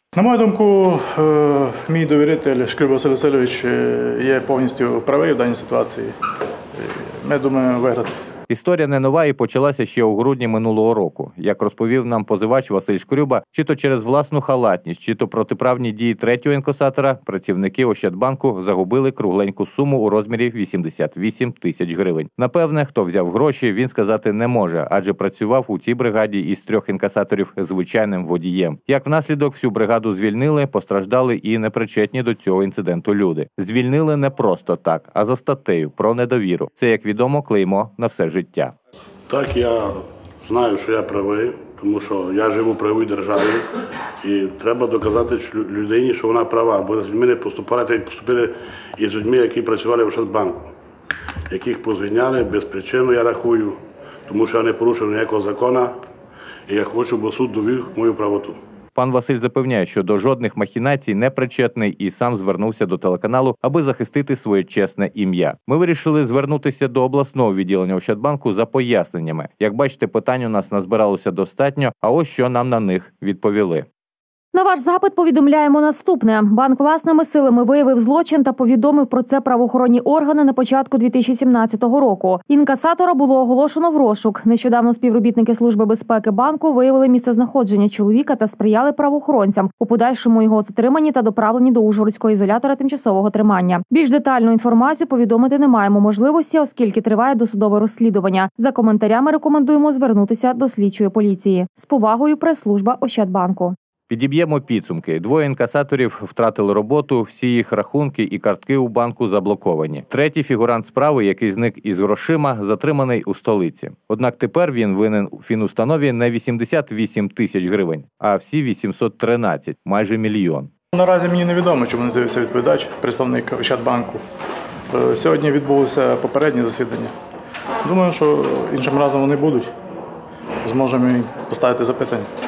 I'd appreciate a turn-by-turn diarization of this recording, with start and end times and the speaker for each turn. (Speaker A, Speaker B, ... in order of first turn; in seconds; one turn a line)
Speaker A: 0.1-6.1
Speaker A: 6.7-8.1
Speaker B: 8.5-38.7
Speaker C: 39.3-43.7
Speaker C: 44.2-50.7
Speaker C: 51.5-53.8
Speaker C: 54.3-55.9
Speaker C: 56.7-58.6
Speaker B: 58.9-73.8
Speaker D: 74.5-103.7
Speaker B: 104.1-120.7
Speaker A: 120.9-124.2
Speaker A: 124.9-127.1
Speaker A: 127.8-129.7
Speaker A: 130.6-132.3